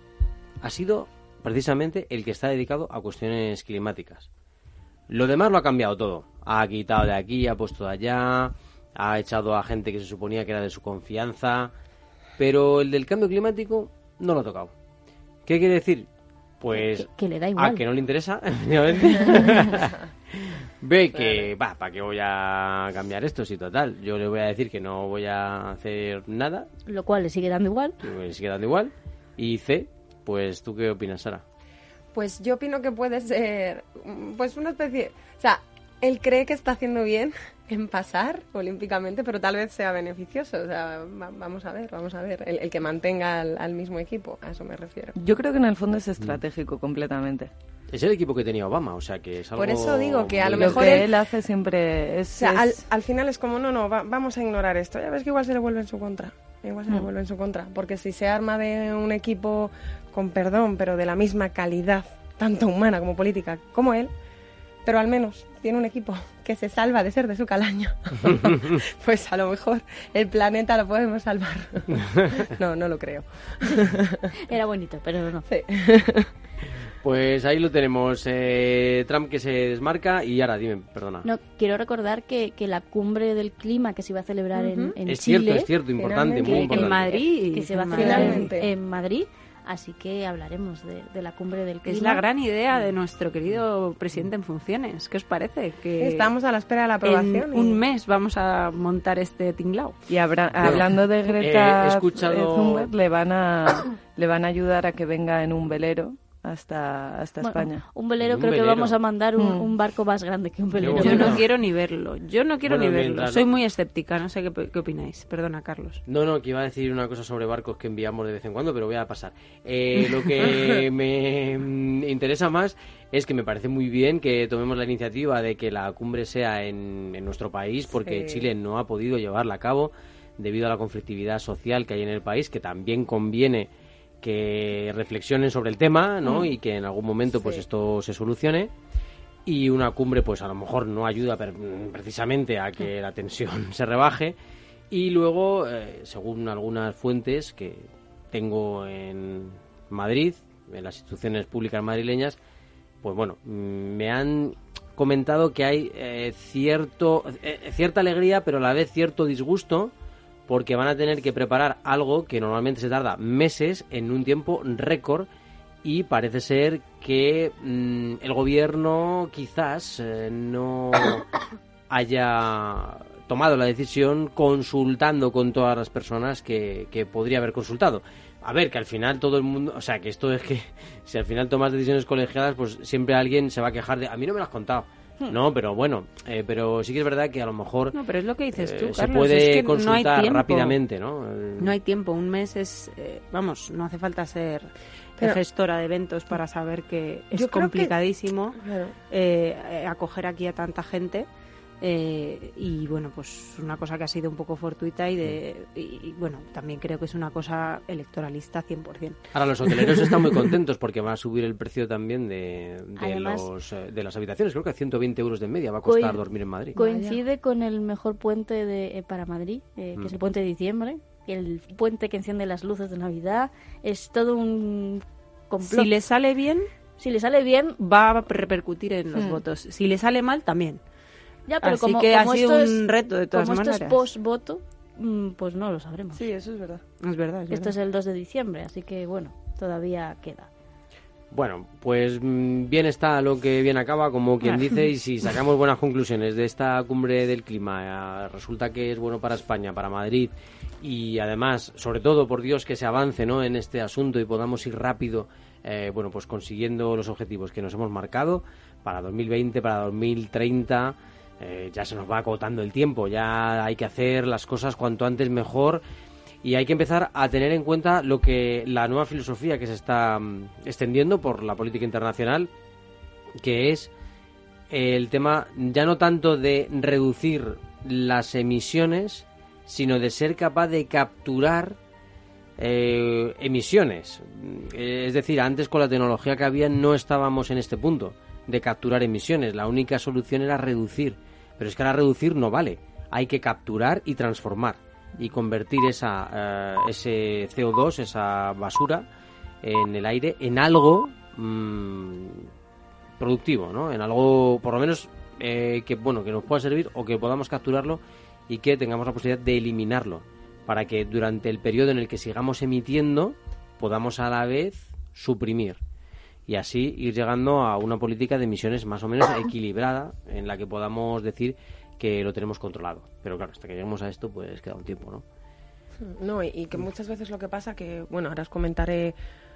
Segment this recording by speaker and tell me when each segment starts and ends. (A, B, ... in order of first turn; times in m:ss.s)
0:00.6-0:04.3 A
0:05.1-0:11.7 A
0:12.4-0:14.7 A
0:15.4-0:16.1 A
0:16.6-0:26.7 A
0:16.7-0:17.8 B
0:21.1-0:21.4 C
0:26.8-0:28.0 B
0:28.0-0:31.4 A
0:32.1-0:45.1 C
0:45.2-0:47.5 D
0:47.9-0:51.1 A
0:49.6-0:51.1 C
0:50.5-0:52.8 D
0:52.4-1:04.1 C
1:04.8-1:14.3 C
1:14.5-1:15.4 B
1:15.5-1:16.3 C
1:17.0-1:21.3 A
1:21.2-1:25.7 B
1:24.5-1:24.9 C
1:25.1-1:27.0 A
1:26.0-1:26.8 C
1:26.5-1:32.2 B
1:26.6-1:28.5 E
1:28.0-1:28.7 C
1:31.8-1:36.3 E
1:36.0-1:37.8 C
1:37.0-1:40.0 E
1:40.1-1:47.8 D
1:40.6-1:42.9 A
1:47.4-1:51.4 B
1:48.2-1:49.0 A
1:49.4-1:49.7 D
1:50.8-1:51.5 A
1:50.9-1:56.0 E
1:52.6-1:53.4 A
1:56.0-2:13.7 A
2:08.0-2:08.5 C
2:14.2-2:18.7 A
2:19.4-2:24.4 A
2:24.9-2:32.4 A
2:33.0-2:39.9 A
2:40.5-2:45.3 A
2:45.8-2:51.3 A
2:51.9-3:08.0 A
3:07.9-3:10.8 E
3:08.5-3:11.8 A
3:11.6-3:18.6 E
3:17.3-3:17.9 C
3:18.6-3:19.0 C
3:19.1-3:21.3 E
3:21.8-3:29.2 E
3:29.3-3:36.8 A
3:29.7-3:30.0 E
3:33.0-3:33.5 B
3:35.8-3:36.2 B
3:36.7-3:37.2 E
3:36.7-3:45.9 B
3:45.6-3:46.7 E
3:47.0-3:47.8 B
3:47.8-3:50.8 E
3:49.1-3:49.4 D
3:51.5-3:56.2 B
3:51.6-3:54.0 E
3:56.3-3:56.8 C
3:57.0-3:57.7 E
3:57.5-4:00.5 B
4:01.3-4:25.8 A
4:26.4-4:32.5 A
4:33.4-4:33.9 A
4:34.7-4:41.8 A
4:42.6-4:59.0 A
4:59.6-5:02.5 A
5:03.2-5:15.8 A
5:16.5-5:25.2 A
5:26.0-5:29.2 C